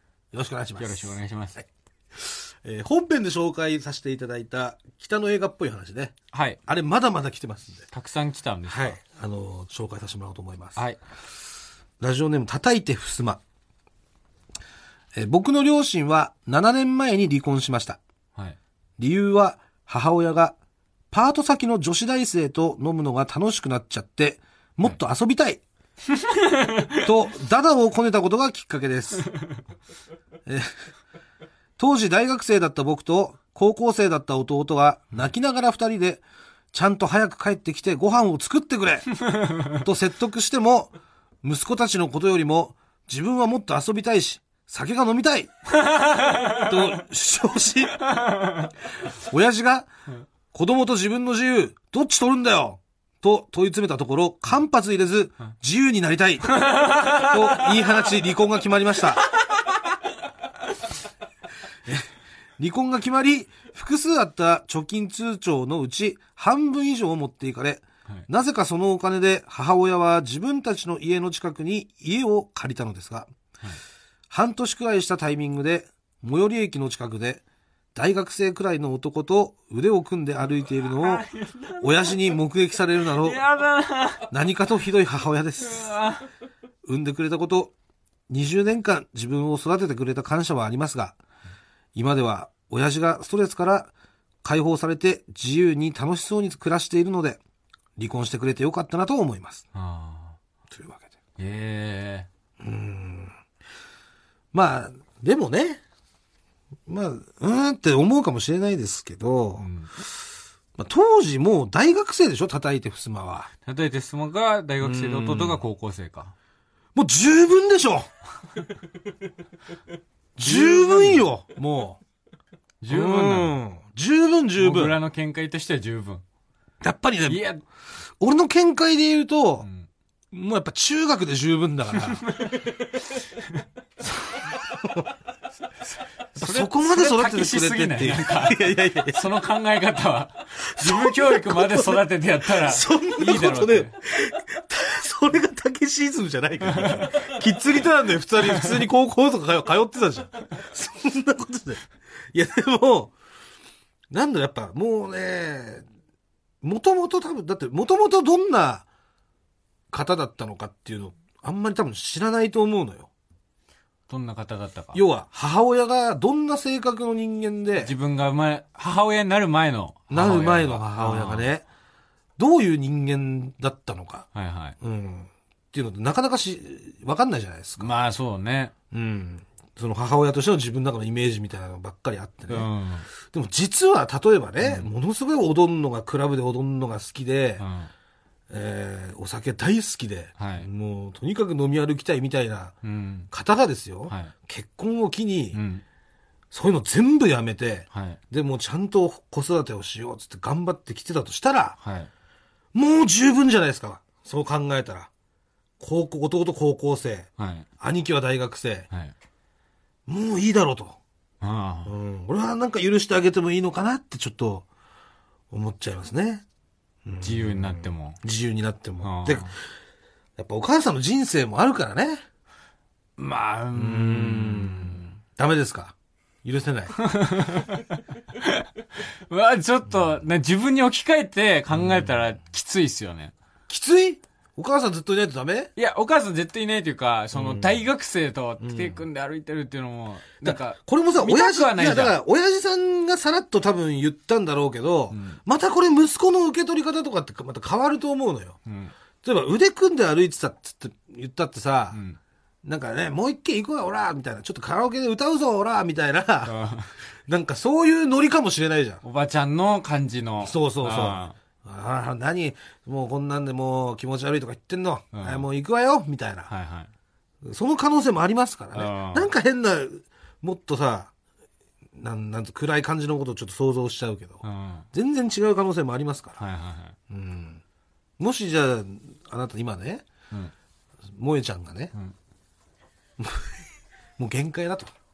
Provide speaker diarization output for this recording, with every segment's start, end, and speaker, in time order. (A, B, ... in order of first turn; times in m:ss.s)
0:00.3-0:01.2 A
0:00.8-0:01.6 B
0:02.2-0:06.1 A
0:06.3-0:06.6 B
0:06.7-0:07.9 A
0:07.9-0:09.0 B
0:08.7-0:10.8 A
0:12.0-0:13.4 A
0:15.1-0:18.0 A
0:19.0-0:20.6 A
0:21.1-0:25.6 A
0:26.1-0:27.0 B
0:27.0-0:29.3 A
0:29.3-0:29.6 B
0:31.8-0:39.1 A
0:39.2-0:39.8 B
0:39.7-0:45.5 A
0:45.8-0:46.8 B
0:46.2-0:48.3 A
0:48.1-0:48.7 B
0:49.1-0:49.9 A
0:50.5-0:59.2 A
0:56.5-0:57.7 B
1:02.6-1:13.3 A
1:14.3-1:17.4 A
1:18.0-1:21.3 A
1:20.8-1:22.3 B
1:21.8-1:23.4 A
1:23.0-1:24.3 B
1:24.3-1:25.9 A
1:25.6-1:26.3 B
1:26.8-1:27.7 A
1:28.3-1:31.2 A
1:32.0-1:33.9 A
1:34.4-1:37.4 A
1:38.0-1:39.6 A
1:39.7-1:40.4 B
1:40.7-1:41.1 A
1:41.4-1:42.3 B
1:42.6-1:43.3 A
1:44.5-1:45.8 A
1:46.9-1:49.7 A
1:49.6-1:49.9 B
1:50.8-1:53.5 A
1:53.6-1:56.3 B
1:54.8-1:55.6 A
1:56.9-1:58.1 A
2:00.4-2:02.0 A
2:00.4-2:01.3 B
2:02.8-2:03.6 B
2:02.9-2:05.0 A
2:04.6-2:06.2 B
2:06.8-2:07.5 A
2:07.3-2:07.6 B
2:08.2-2:09.7 A
2:09.6-2:09.9 B
2:10.3-2:12.3 A
2:12.2-2:13.4 B
2:14.6-2:15.1 A
2:15.8-2:23.9 B
2:16.4-2:19.3 A
2:20.6-2:33.1 A
2:26.7-2:27.2 B
2:34.1-2:35.8 A
2:36.6-2:38.9 A
2:39.9-2:43.1 A
2:44.1-2:45.0 B
2:44.9-2:47.9 A
2:47.8-2:51.5 B
2:50.1-2:51.7 A
2:52.4-2:54.3 A
2:54.3-2:54.8 B
2:54.8-2:57.9 A
2:57.8-2:58.7 B
2:58.9-3:02.7 A
3:02.5-3:03.1 B
3:03.2-3:07.6 A
3:04.6-3:04.9 B
3:07.6-3:07.9 B
3:08.5-3:12.8 A
3:10.4-3:10.7 B
3:12.8-3:13.3 B
3:13.3-3:15.6 A
3:14.1-3:14.3 B
3:15.5-3:15.8 B
3:16.5-3:21.8 A
3:17.9-3:18.2 B
3:21.8-3:22.1 B
3:22.7-3:25.1 A
3:25.8-3:27.3 A
3:27.4-3:27.7 B
3:27.8-3:28.9 A
3:30.1-3:31.0 A
3:31.4-3:31.9 B
3:31.8-3:34.7 A
3:35.5-3:36.4 A
3:37.0-3:39.5 A
3:37.2-3:38.2 B
3:39.0-3:39.5 B
3:40.4-3:42.2 A
3:43.2-3:45.2 B
3:43.7-3:47.0 A
3:47.0-3:53.3 B
3:49.9-3:50.2 A
3:51.7-3:52.3 A
3:53.7-3:55.7 A
3:55.8-4:02.2 B
3:57.3-3:57.9 A
3:58.6-3:59.1 A
4:00.4-4:08.6 A
4:05.1-4:05.4 B
4:08.7-4:08.9 B
4:09.2-4:12.0 A
4:11.9-4:12.2 B
4:12.6-4:16.6 A
4:16.5-4:16.9 B
4:17.3-4:19.0 A
4:19.0-4:21.4 B
4:20.4-4:26.5 A
4:25.1-4:25.4 B
4:26.5-4:26.9 B
4:27.4-4:31.1 A
4:28.7-4:29.3 B
4:32.0-4:36.4 A
4:34.4-4:34.9 B
4:36.4-4:36.9 B
4:37.1-4:37.6 A
4:38.2-4:40.0 A
4:41.1-4:41.9 A
4:43.2-4:43.6 A
4:44.2-4:44.9 A